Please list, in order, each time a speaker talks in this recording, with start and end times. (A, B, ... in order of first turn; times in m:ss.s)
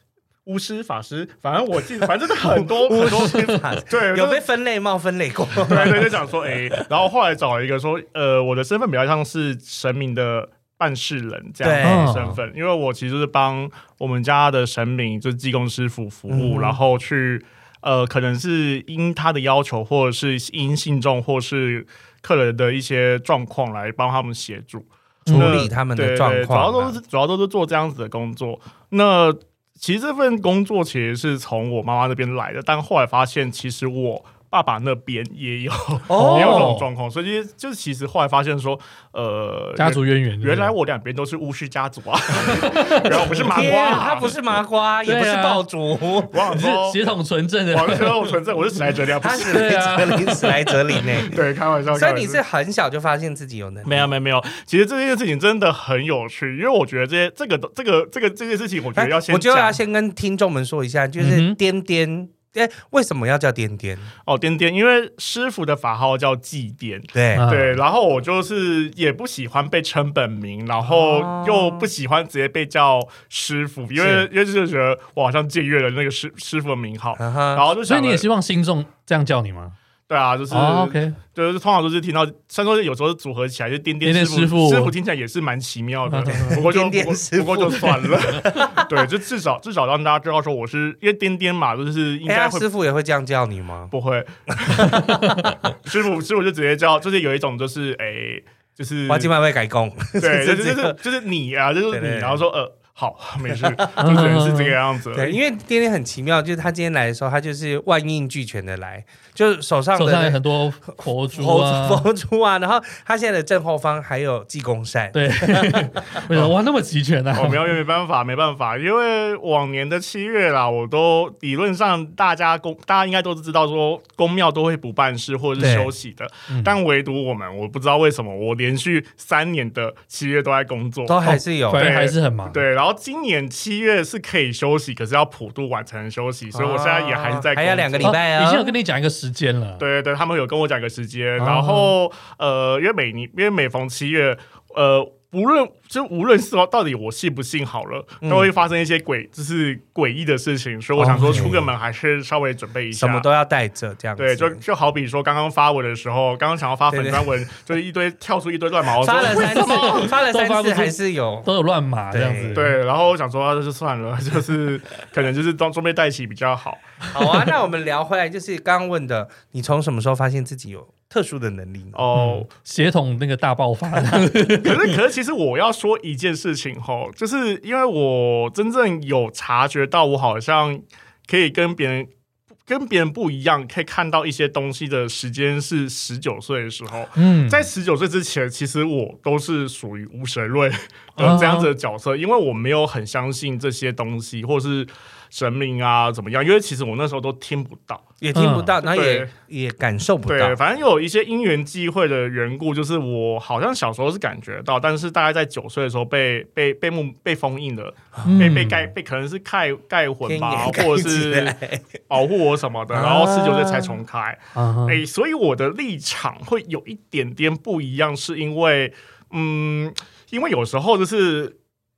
0:00.4-0:04.4 A
0:02.4-0:06.9 B
0:05.7-0:44.3 A
0:11.6-0:12.1 B
0:11.8-0:12.4 C
0:16.3-0:16.8 B
0:25.3-0:25.7 C
0:25.3-0:27.0 B
0:36.1-0:36.8 B
0:36.1-0:36.9 C
0:39.8-0:40.7 C
0:42.5-0:44.0 C
0:43.4-0:46.4 B
0:45.0-0:45.6 C
0:46.3-0:47.0 A
0:46.5-0:48.4 C
0:47.7-0:49.7 A
0:49.2-0:51.4 B
0:49.3-0:50.8 C
0:51.2-0:52.4 A
0:51.9-0:54.1 B
0:53.8-0:59.8 A
0:59.0-1:04.1 B
1:01.2-1:01.6 C
1:04.2-1:18.3 A
1:07.1-1:07.5 B
1:07.4-1:07.7 C
1:10.9-1:11.9 B
1:14.0-1:14.3 B
1:17.2-1:17.6 B
1:17.9-1:19.8 C
1:20.1-1:32.7 A
1:20.5-1:21.2 C
1:24.0-1:25.0 C
1:26.1-1:26.6 C
1:26.3-1:28.9 B
1:32.3-1:33.9 B
1:33.9-1:35.0 A
1:34.6-1:35.7 B
1:34.9-1:35.3 C
1:35.7-1:39.3 A
1:39.1-1:41.0 B
1:40.2-1:45.4 A
1:41.9-1:42.4 B
1:43.6-1:44.0 B
1:44.0-1:44.8 C
1:45.1-1:50.4 B
1:50.0-1:52.1 C
1:51.0-1:56.2 B
1:55.1-1:57.7 C
1:56.3-1:56.6 A
1:57.3-2:11.2 A
2:05.6-2:05.9 B
2:06.5-2:06.8 C
2:11.1-2:11.9 B
2:11.2-2:12.6 C
2:11.8-2:18.2 A
2:16.5-2:18.7 B
2:18.0-2:19.8 C
2:19.8-2:33.3 A
2:21.4-2:21.9 C
2:28.2-2:28.5 B
2:31.0-2:31.7 B
2:33.0-2:34.6 B
2:34.2-2:40.1 A
2:36.9-2:37.4 B
2:39.0-2:41.5 B
2:39.3-2:42.8 C
2:42.1-2:42.6 B
2:42.5-2:47.4 A
2:47.1-2:52.0 B
2:52.0-2:52.5 A
2:52.1-2:55.0 C
2:54.6-3:02.1 A
3:02.7-3:18.1 A
3:07.2-3:07.7 C
3:11.2-3:11.7 C
3:18.2-3:20.6 B
3:18.3-3:18.8 C
3:18.8-3:19.3 A
3:20.3-3:31.6 A
3:28.2-3:28.5 B
3:28.2-3:28.9 C
3:30.2-3:31.9 B
3:32.1-3:41.6 A
3:32.9-3:34.0 B
3:34.6-3:35.0 C